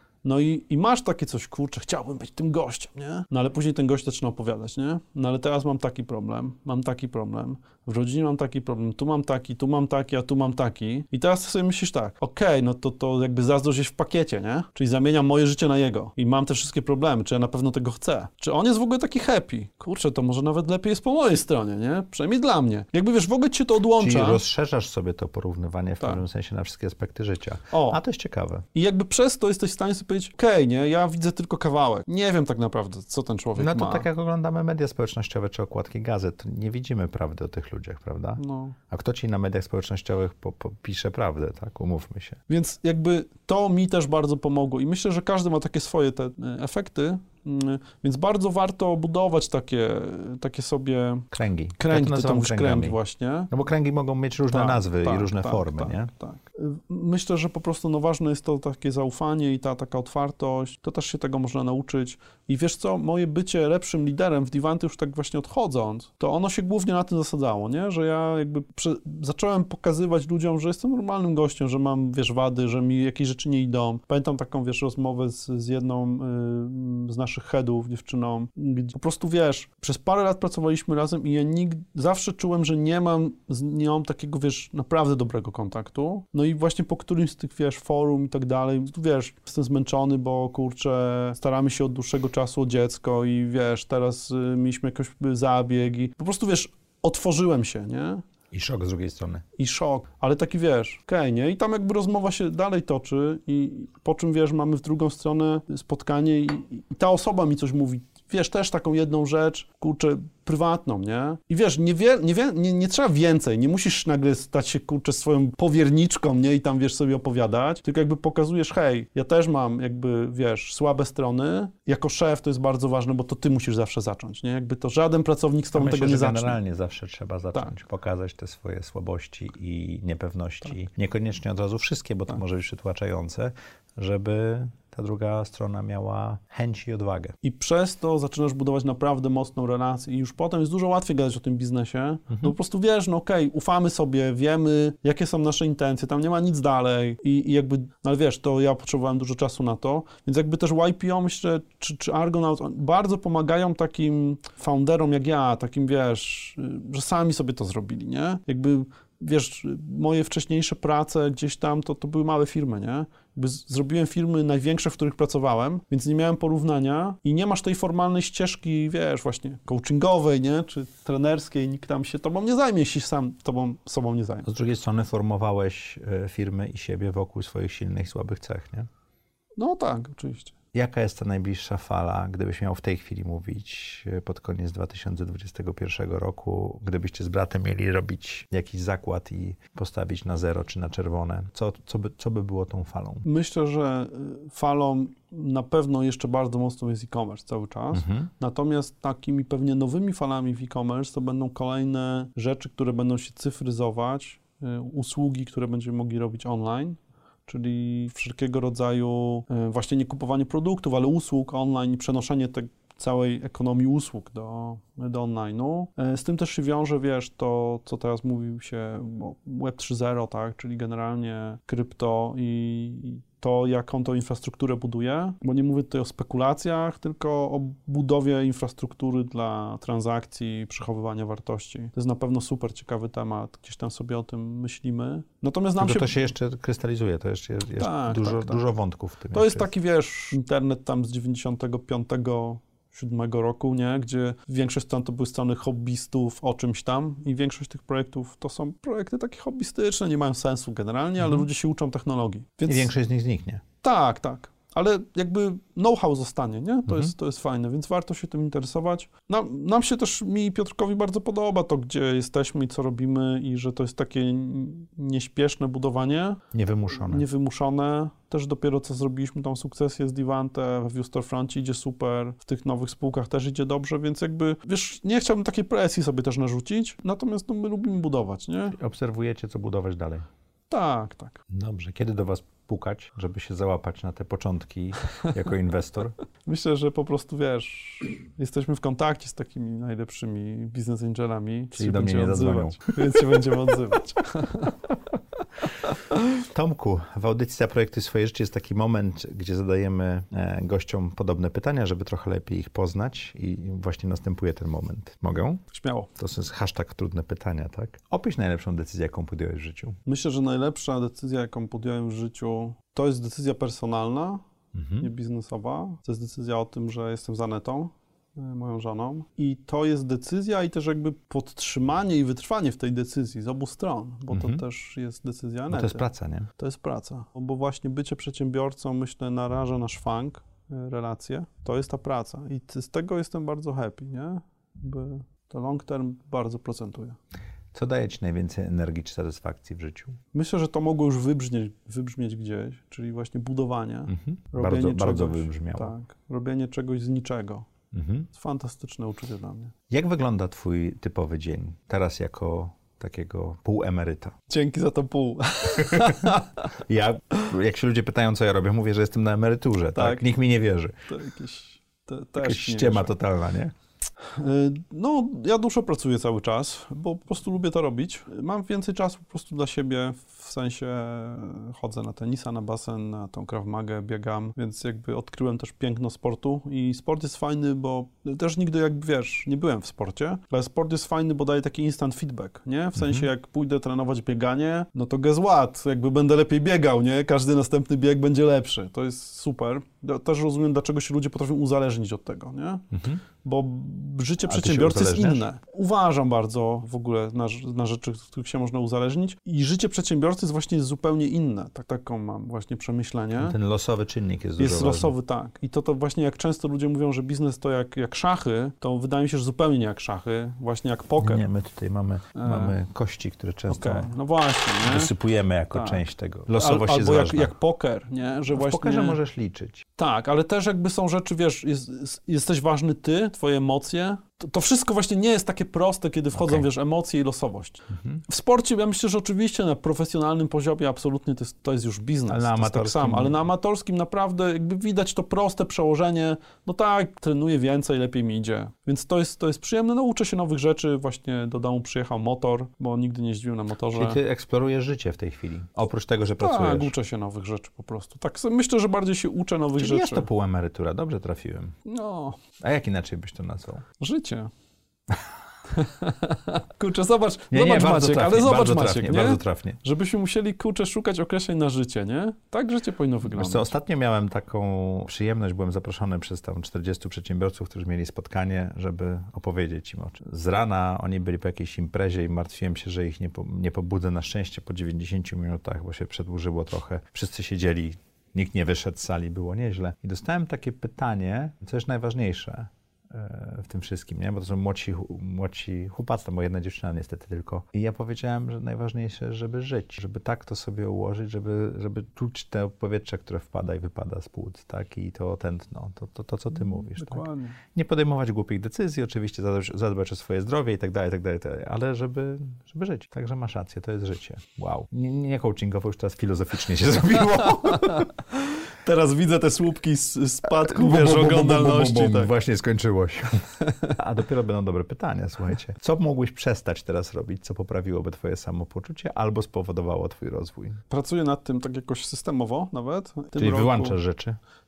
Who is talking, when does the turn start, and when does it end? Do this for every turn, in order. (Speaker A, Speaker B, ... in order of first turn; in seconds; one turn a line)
Speaker A: 0.2-24.4
Speaker B: 24.0-28.6
Speaker A: 27.7-28.0
Speaker A: 28.7-34.0
Speaker B: 33.6-42.4
Speaker A: 38.4-38.8
Speaker A: 42.5-53.5
Speaker B: 51.3-53.0
Speaker B: 53.5-56.1
Speaker A: 54.5-98.2
Speaker B: 98.5-99.5
Speaker A: 99.6-126.6
Speaker B: 125.7-137.3
Speaker A: 137.4-174.5
Speaker B: 174.4-178.9
Speaker A: 179.6-180.5
Speaker B: 180.7-193.2
Speaker A: 193.2-236.2
Speaker B: 197.9-198.3
Speaker B: 235.8-239.7
Speaker A: 237.8-238.6
Speaker A: 239.3-252.9
Speaker B: 251.2-251.5
Speaker B: 252.7-253.6
Speaker A: 253.8-266.4
Speaker B: 266.5-267.2
Speaker A: 266.9-278.7
Speaker B: 278.7-280.3
Speaker A: 280.7-281.4
Speaker B: 281.5-286.1
Speaker A: 286.4-294.7
Speaker B: 291.7-293.2
Speaker B: 296.5-305.6
Speaker A: 305.7-306.1
Speaker B: 306.2-310.0
Speaker A: 310.1-314.4
Speaker B: 314.7-315.1
Speaker A: 315.0-326.0
Speaker B: 324.3-324.6
Speaker B: 325.7-326.5
Speaker A: 326.6-337.2
Speaker B: 337.7-340.2
Speaker A: 340.3-347.7
Speaker B: 344.1-345.9
Speaker B: 347.9-348.3
Speaker A: 348.3-349.7
Speaker B: 349.9-354.4
Speaker A: 354.5-356.5
Speaker B: 355.8-356.2
Speaker B: 356.9-360.9
Speaker A: 359.9-360.3
Speaker A: 361.1-363.1
Speaker B: 362.4-363.7
Speaker A: 364.2-392.9
Speaker B: 382.9-383.3
Speaker B: 392.9-393.2
Speaker A: 393.4-403.6
Speaker B: 394.4-395.4
Speaker B: 403.4-405.1
Speaker A: 404.6-411.4
Speaker B: 411.2-414.1
Speaker A: 412.3-412.8
Speaker A: 413.7-415.1
Speaker B: 414.8-417.5
Speaker A: 415.7-419.2
Speaker B: 418.5-419.8
Speaker A: 420.0-444.2
Speaker B: 426.3-426.6
Speaker B: 427.9-428.2
Speaker B: 432.3-433.4
Speaker B: 443.9-446.9
Speaker A: 446.4-450.3
Speaker B: 449.8-451.7
Speaker A: 451.9-452.4
Speaker B: 452.6-453.8
Speaker A: 454.0-454.5
Speaker A: 455.7-463.7
Speaker B: 457.5-459.8
Speaker B: 463.3-508.1
Speaker A: 496.9-497.6
Speaker A: 508.7-512.3
Speaker B: 510.6-520.8
Speaker A: 520.9-524.0
Speaker B: 523.4-524.4